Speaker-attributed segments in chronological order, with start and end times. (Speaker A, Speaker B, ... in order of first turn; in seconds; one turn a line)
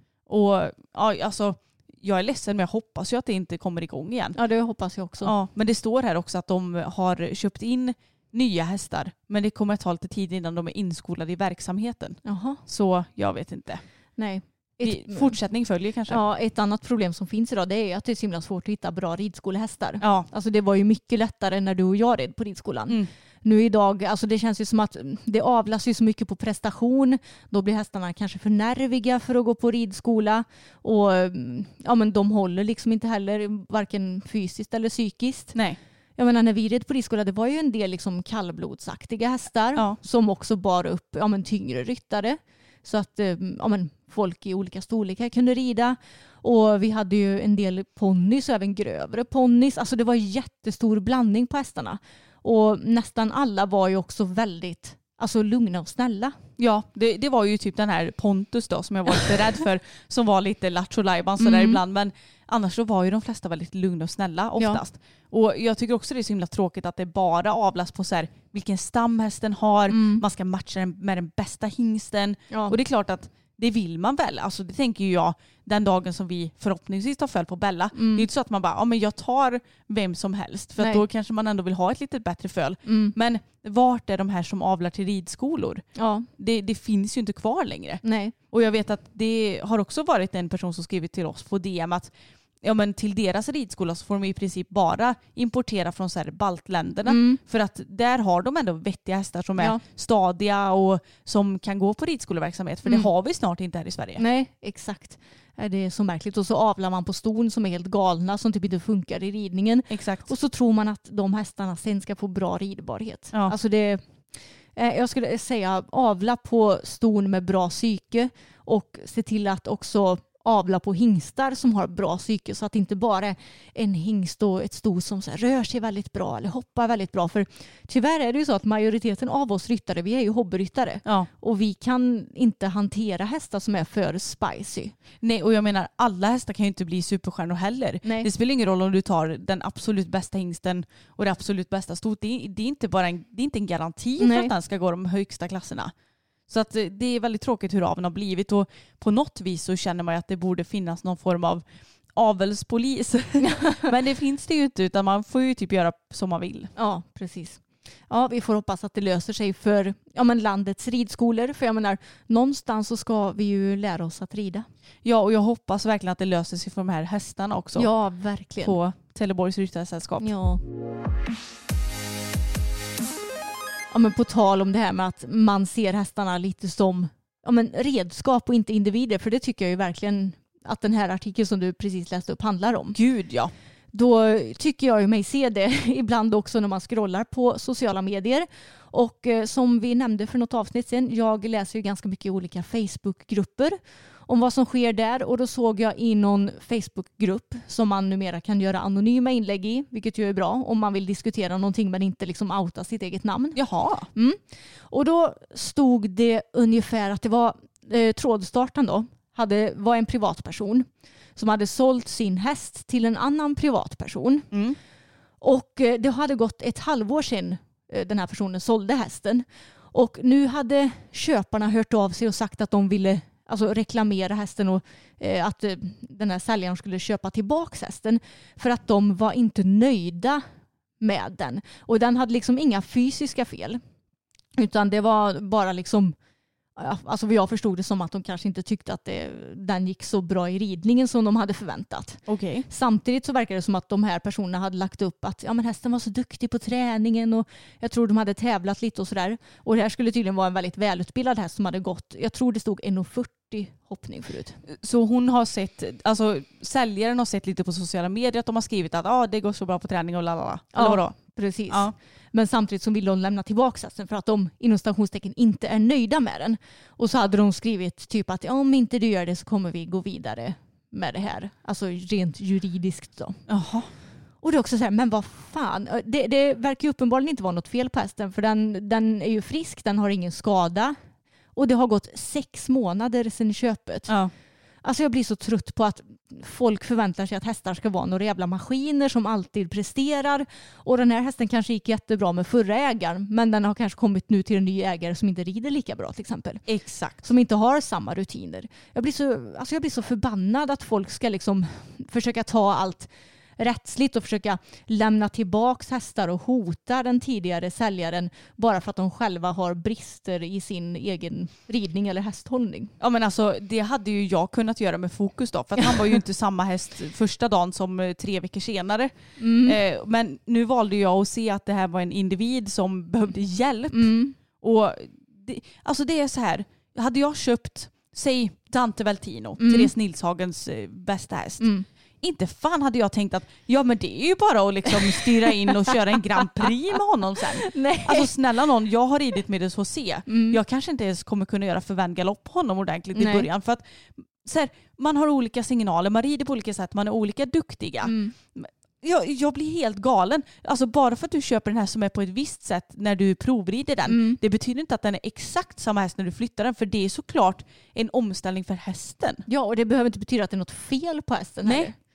Speaker A: 0.3-4.4
Speaker B: 4.3-5.3
Speaker A: 5.2-13.8
Speaker B: 12.2-12.6
Speaker B: 14.2-15.4
Speaker A: 14.8-16.2
Speaker B: 16.1-35.6
Speaker A: 20.0-20.3
Speaker B: 36.2-56.3
Speaker A: 56.6-85.8
Speaker B: 61.4-61.8
Speaker B: 69.9-70.2
Speaker B: 72.5-72.8
Speaker B: 77.9-78.3
Speaker B: 80.8-81.0
Speaker B: 82.8-83.1
Speaker B: 86.0-86.3
Speaker A: 86.4-104.2
Speaker B: 88.0-88.3
Speaker B: 97.0-97.4
Speaker B: 104.2-114.0
Speaker A: 109.9-110.3
Speaker B: 114.8-134.9
Speaker A: 131.0-131.3
Speaker A: 135.2-145.9
Speaker B: 138.0-138.3
Speaker B: 144.2-144.5
Speaker A: 146.5-156.7
Speaker B: 153.5-153.9
Speaker B: 156.8-164.7
Speaker A: 165.0-167.9
Speaker B: 167.8-168.8
Speaker A: 168.6-170.3
Speaker B: 170.2-170.6
Speaker B: 173.9-183.0
Speaker A: 182.9-183.5
Speaker B: 183.9-193.8
Speaker B: 194.3-203.6
Speaker A: 203.5-204.1
Speaker B: 204.1-214.5
Speaker A: 214.5-214.8
Speaker B: 215.4-230.4
Speaker B: 231.0-233.8
Speaker B: 234.6-236.1
Speaker B: 236.8-254.6
Speaker A: 242.3-242.7
Speaker A: 254.7-261.9
Speaker B: 260.7-273.4
Speaker A: 273.5-273.9
Speaker B: 274.4-280.9
Speaker B: 281.6-284.1
Speaker B: 284.8-296.6
Speaker A: 296.7-297.2
Speaker B: 297.2-312.9
Speaker A: 313.0-331.7
Speaker B: 319.4-319.8
Speaker B: 323.9-324.4
Speaker B: 329.6-329.9
Speaker B: 331.6-331.9
Speaker A: 332.2-359.4
Speaker B: 335.7-335.9
Speaker B: 337.6-338.3
Speaker B: 340.3-340.6
Speaker B: 343.1-343.5
Speaker B: 348.0-348.3
Speaker B: 354.1-354.4
Speaker B: 359.5-361.9
Speaker A: 361.6-361.9